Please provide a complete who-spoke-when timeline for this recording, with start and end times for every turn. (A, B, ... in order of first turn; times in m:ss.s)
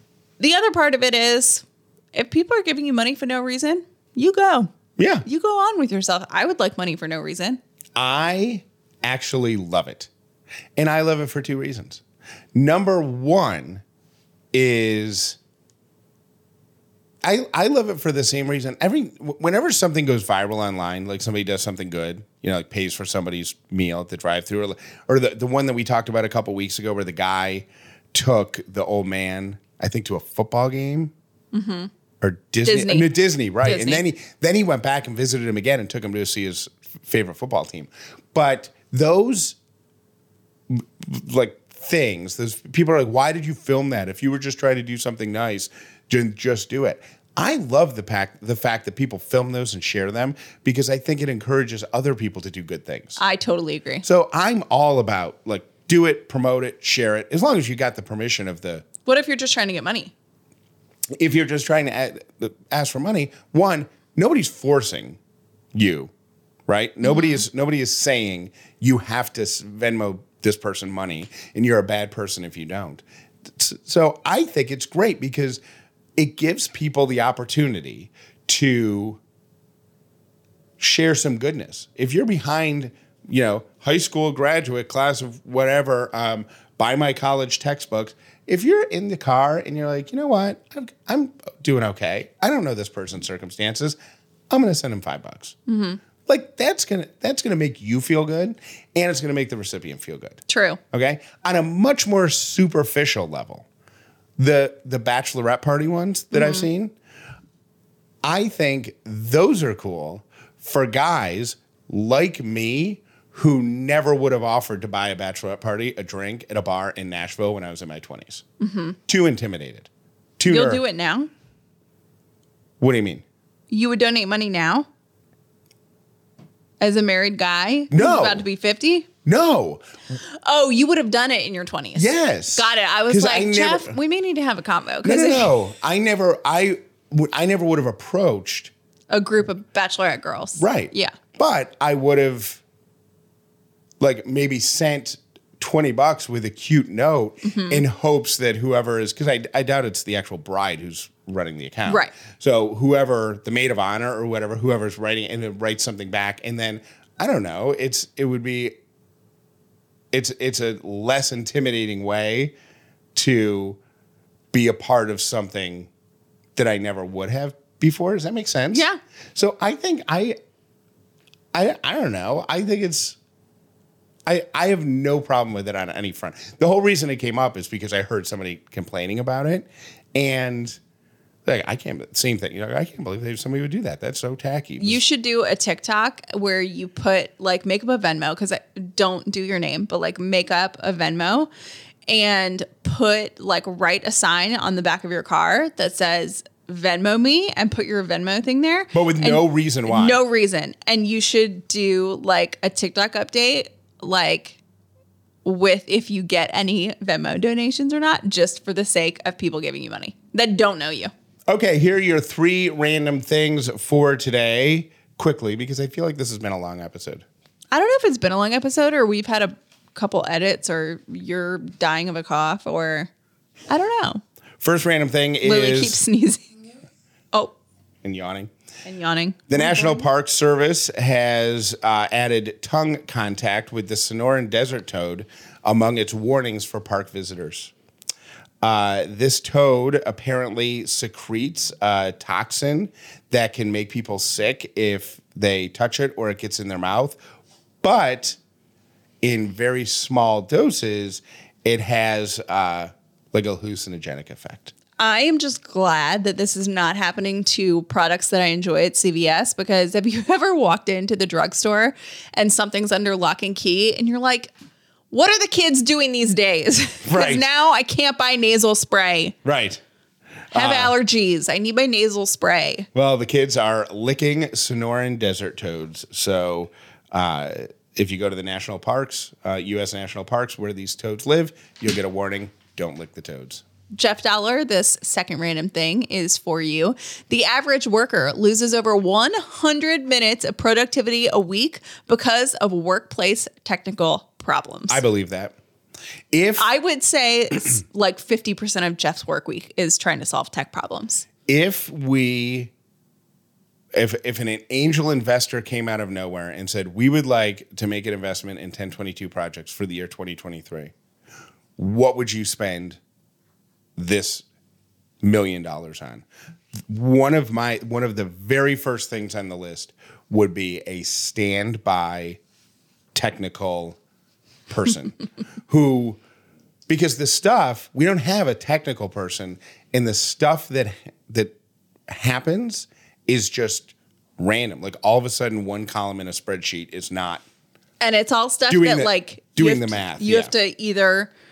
0:00.4-0:04.7 A
0:05.0-0:05.2 B
0:05.2-0:07.6 A
0:08.0-0:10.1 B
0:10.8-0:12.0 B
0:12.5-0:13.8 B
0:14.5-0:15.4 B
0:17.2-0:31.1 B
0:31.5-0:31.9 A
0:32.2-0:39.6 B
0:32.6-0:34.0 A
0:40.7-0:53.2 B
0:53.2-0:54.0 A
0:54.0-0:58.9 B
0:59.1-1:00.1 A
1:01.1-1:05.2 B
1:05.7-1:06.1 B
1:06.7-1:15.6 B
1:07.0-1:07.4 A
1:16.2-1:19.2 B
1:20.8-1:34.0 B
1:34.5-1:35.6 B
1:35.7-1:36.0 A
1:36.3-1:40.4 B
1:40.5-1:40.8 A
1:40.9-1:43.7 B
1:44.4-1:46.9 B
1:46.3-1:46.7 A
1:48.2-1:58.4 B
1:58.6-1:59.0 A
1:59.1-2:00.8 B
2:00.5-2:01.3 A
2:02.8-2:03.2 B
2:03.7-2:04.9 A
2:06.8-2:09.1 A
2:07.9-2:08.4 B
2:09.2-2:09.8 B
2:10.4-2:15.5 A
2:12.0-2:14.0 B
2:15.0-2:18.7 B
2:19.1-2:21.2 A
2:20.6-2:22.6 B
2:24.0-2:38.8 B
2:27.4-2:27.8 A
2:31.9-2:32.1 A
2:40.1-2:42.5 B
2:43.2-2:43.8 B
2:44.5-2:45.9 B
2:46.6-2:50.4 B
2:48.7-2:49.0 A
2:51.5-2:53.2 B
2:54.3-3:00.8 B
3:01.4-3:05.0 B
3:04.8-3:11.5 A
3:12.1-3:24.6 A
3:18.9-3:20.2 B
3:25.4-3:31.1 A
3:31.5-3:37.2 B
3:37.7-3:43.1 A
3:43.7-3:44.2 A
3:44.6-3:46.0 B
3:45.4-3:46.5 A
3:48.0-3:48.5 B
3:48.8-3:50.0 A
3:49.5-3:57.7 B
3:58.6-4:07.2 B
4:07.8-4:08.4 B
4:09.2-4:14.7 B
4:15.0-4:24.5 A
4:25.1-4:29.4 A
4:27.1-4:27.5 B
4:29.4-4:29.8 B
4:30.5-4:31.0 B
4:30.5-4:32.9 A
4:32.9-4:43.6 B
4:43.9-4:55.0 A
4:54.9-4:55.6 B
4:56.3-4:56.7 B
4:56.6-5:01.2 A
5:01.5-5:02.7 B
5:03.9-5:10.9 B
5:11.8-5:13.0 B
5:14.0-5:14.4 B
5:15.2-5:16.2 B
5:16.9-5:22.4 B
5:23.1-5:24.0 B
5:24.7-5:26.2 B
5:26.9-5:31.6 B
5:32.1-5:37.4 B
5:38.0-5:41.3 A
5:38.7-5:40.5 B